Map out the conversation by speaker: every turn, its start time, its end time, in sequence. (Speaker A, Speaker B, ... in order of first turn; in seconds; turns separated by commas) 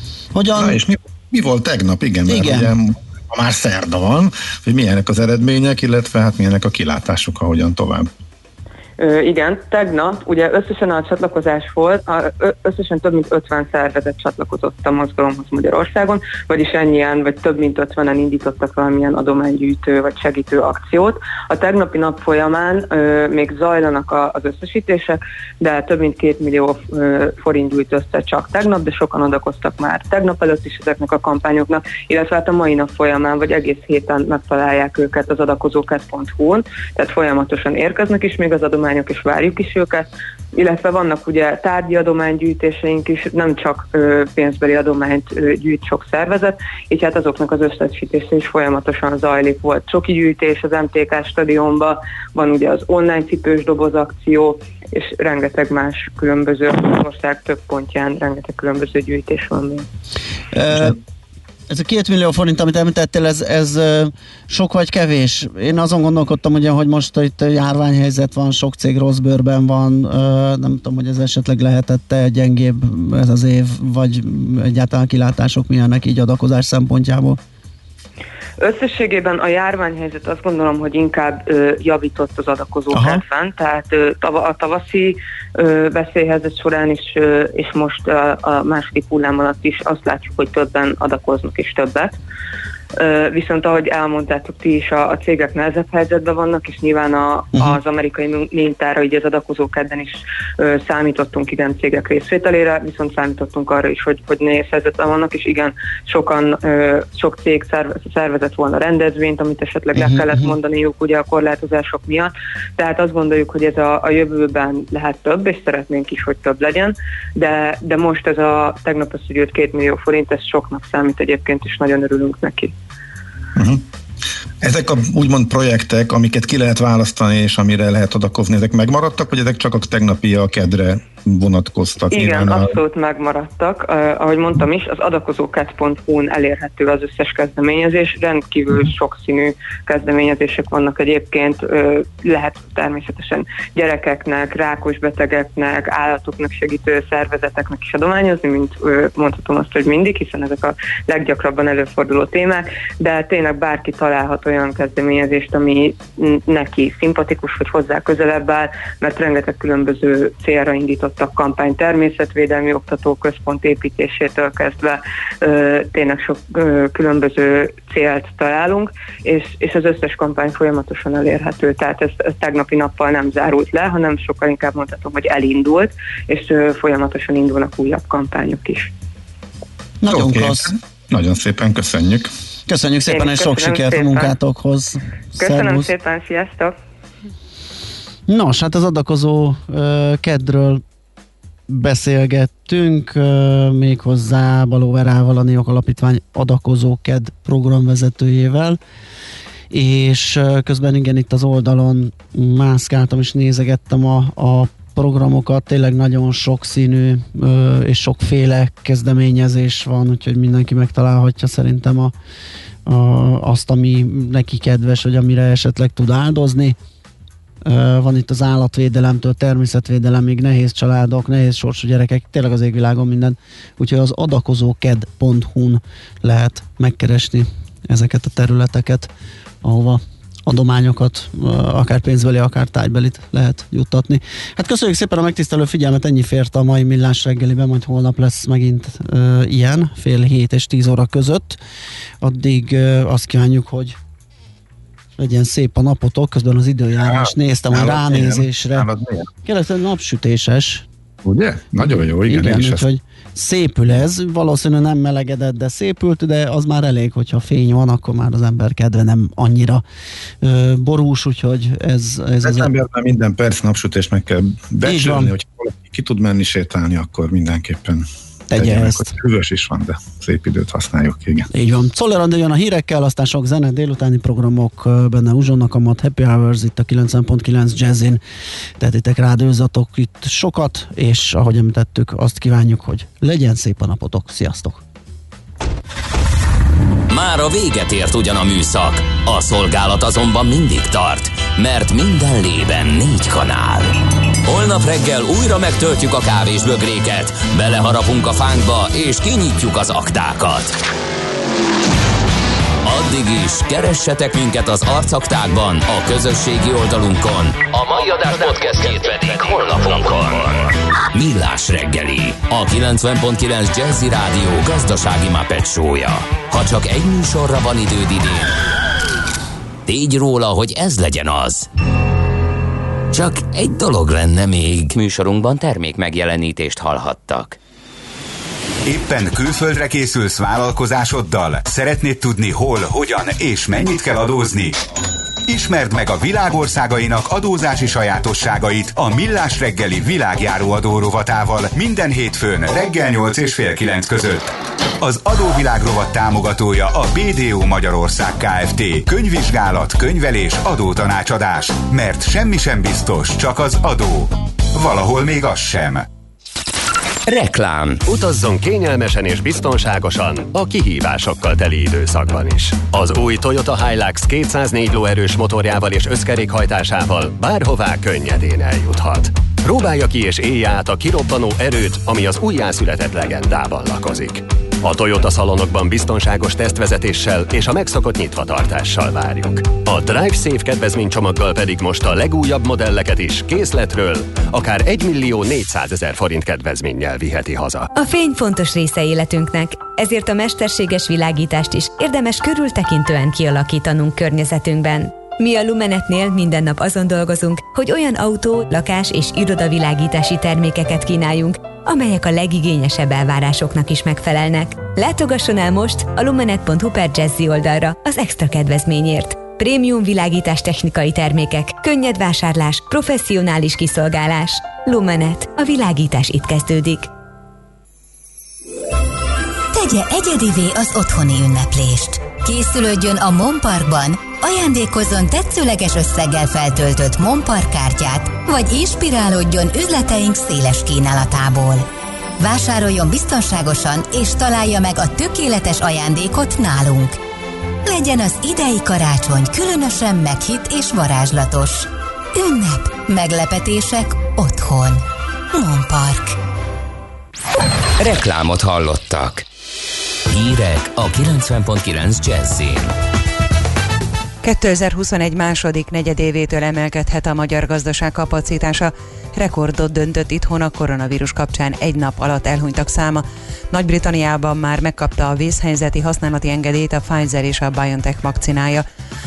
Speaker A: 0.3-0.8, Speaker B: 0.6-8.1, Speaker A: 2.3-2.7, Speaker C: 9.0-59.9, Speaker A: 60.5-61.0, Speaker A: 61.7-77.4, Speaker C: 78.6-92.2, Speaker A: 82.9-83.2, Speaker C: 93.0-122.7, Speaker A: 110.0-110.5, Speaker B: 123.6-123.8, Speaker B: 124.6-132.7, Speaker C: 132.1-178.9, Speaker A: 180.0-180.7, Speaker B: 180.1-182.3, Speaker A: 182.7-185.9, Speaker C: 183.1-184.3, Speaker C: 185.4-186.8, Speaker A: 188.3-190.8, Speaker A: 191.7-198.8, Speaker A: 199.7-212.1, Speaker A: 212.9-216.8, Speaker A: 217.6-229.1, Speaker A: 229.6-241.6, Speaker A: 242.2-244.0, Speaker A: 245.2-248.9, Speaker B: 247.0-249.3, Speaker A: 249.4-250.9, Speaker B: 251.2-252.8, Speaker A: 252.2-259.8, Speaker A: 260.4-262.7, Speaker B: 262.4-271.5, Speaker A: 264.9-265.3, Speaker A: 268.5-269.1, Speaker A: 271.5-278.2, Speaker A: 278.8-284.8, Speaker D: 287.1-300.7, Speaker D: 302.8-318.6, Speaker D: 319.9-321.7, Speaker D: 323.1-327.6, Speaker E: 328.9-334.8, Speaker E: 335.5-356.1, Speaker D: 357.3-358.0, Speaker F: 358.1-387.9, Speaker G: 387.9-417.1, Speaker H: 419.7-431.9, Speaker H: 432.4-437.2, Speaker H: 437.9-446.4, Speaker D: 448.0-449.4, Speaker D: 450.3-452.9, Speaker I: 454.4-468.9